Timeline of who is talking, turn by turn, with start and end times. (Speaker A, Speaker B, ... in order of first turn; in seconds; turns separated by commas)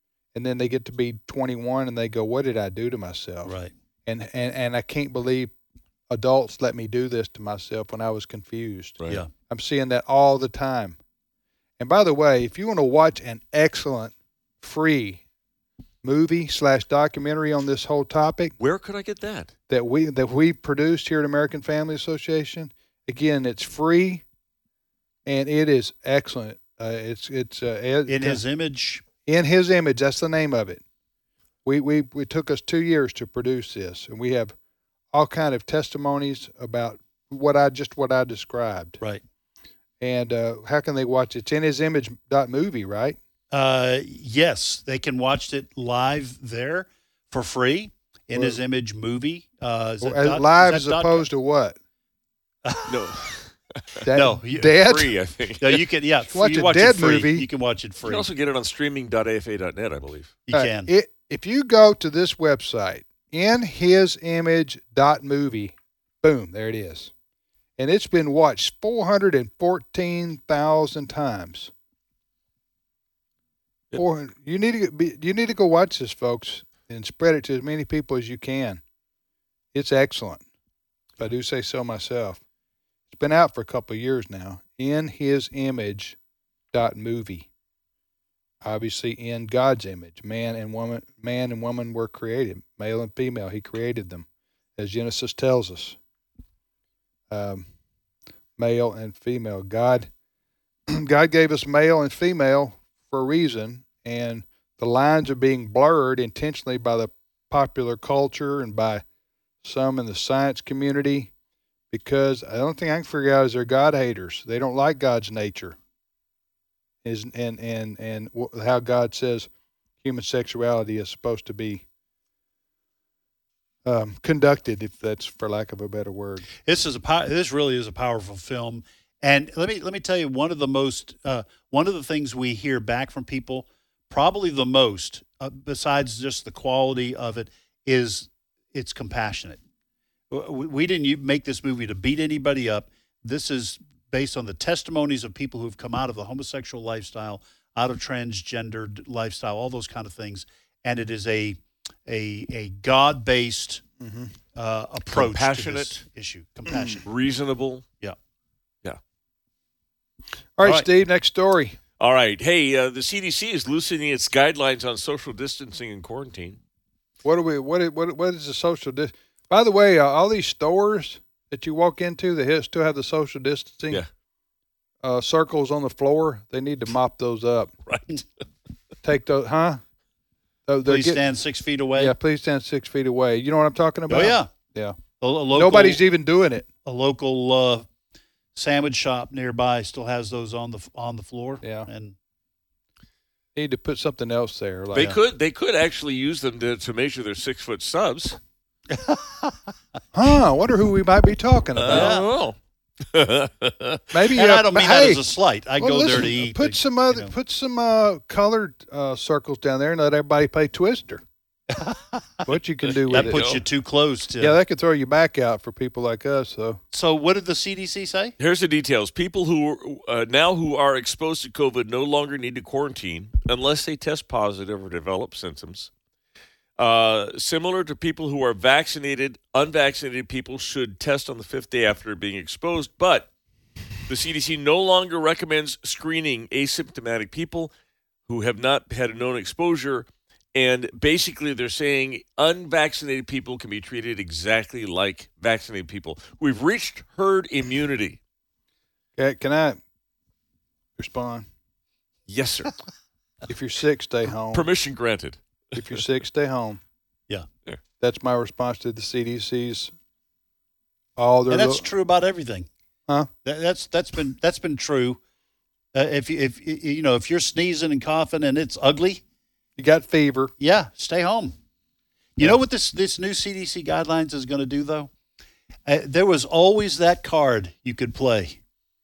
Speaker A: 0.3-3.5, Speaker B: 3.4-3.7, Speaker A: 4.0-5.5, Speaker A: 6.1-9.0, Speaker A: 9.5-11.0, Speaker A: 11.8-15.2, Speaker A: 16.0-18.5, Speaker C: 18.6-19.5, Speaker A: 19.7-24.2, Speaker A: 25.2-28.4, Speaker B: 28.1-29.0, Speaker A: 29.2-30.8, Speaker A: 31.6-34.5, Speaker A: 35.1-39.0, Speaker A: 40.0-43.2, Speaker B: 43.5-51.2, Speaker A: 48.3-48.6, Speaker A: 50.0-51.8, Speaker B: 52.6-53.3, Speaker C: 52.9-54.0, Speaker A: 54.0-55.1, Speaker B: 54.1-54.8, Speaker C: 54.8-55.9, Speaker B: 55.6-58.3, Speaker A: 56.3-57.5, Speaker C: 58.0-60.4, Speaker B: 60.5-60.9, Speaker A: 60.5-67.1, Speaker A: 67.8-71.7, Speaker A: 73.9-78.8, Speaker A: 79.7-80.4, Speaker A: 81.2-82.4, Speaker A: 83.1-86.2, Speaker A: 86.7-87.5, Speaker A: 88.6-94.2, Speaker A: 94.8-96.0, Speaker A: 97.3-97.7, Speaker A: 98.6-100.1, Speaker A: 100.9-109.0, Speaker A: 109.6-111.3, Speaker A: 111.9-115.8, Speaker A: 117.0-119.5, Speaker A: 120.0-121.8, Speaker A: 123.8-126.5, Speaker B: 126.6-139.6, Speaker B: 140.3-153.8, Speaker A: 154.0-154.3, Speaker B: 154.5-157.0, Speaker C: 155.1-156.0, Speaker C: 157.0-157.8, Speaker A: 160.6-161.8, Speaker C: 162.0-166.6, Speaker A: 167.2-174.0, Speaker A: 175.0-177.7, Speaker A: 179.0-179.8, Speaker A: 180.7-181.2, Speaker B: 180.9-182.1, Speaker A: 181.9-185.0, Speaker B: 184.1-184.5, Speaker B: 185.2-186.0, Speaker A: 185.5-186.7, Speaker B: 186.8-187.9, Speaker B: 188.5-192.2, Speaker A: 191.6-191.9, Speaker A: 193.5-195.2, Speaker C: 194.9-198.4, Speaker B: 198.9-199.7, Speaker A: 200.1-202.2, Speaker C: 201.8-202.6, Speaker B: 201.9-202.3, Speaker C: 203.1-204.0, Speaker A: 204.1-205.2, Speaker B: 204.3-207.3, Speaker A: 205.8-211.2, Speaker B: 211.7-212.4, Speaker A: 212.4-213.5, Speaker C: 212.9-213.6, Speaker B: 213.1-214.6, Speaker A: 214.4-216.8, Speaker B: 216.9-218.3, Speaker C: 218.4-225.9, Speaker C: 226.8-233.3, Speaker C: 234.1-237.7, Speaker C: 238.3-248.2, Speaker A: 249.2-249.8, Speaker A: 251.0-251.5, Speaker C: 252.3-252.8, Speaker A: 253.5-254.7, Speaker C: 254.5-256.0, Speaker A: 255.8-256.8, Speaker A: 258.0-259.9, Speaker A: 261.2-261.9, Speaker B: 261.5-262.7, Speaker B: 263.4-265.2, Speaker B: 265.9-269.2, Speaker A: 269.8-270.5, Speaker B: 270.6-271.6, Speaker B: 272.4-275.1, Speaker B: 275.9-278.6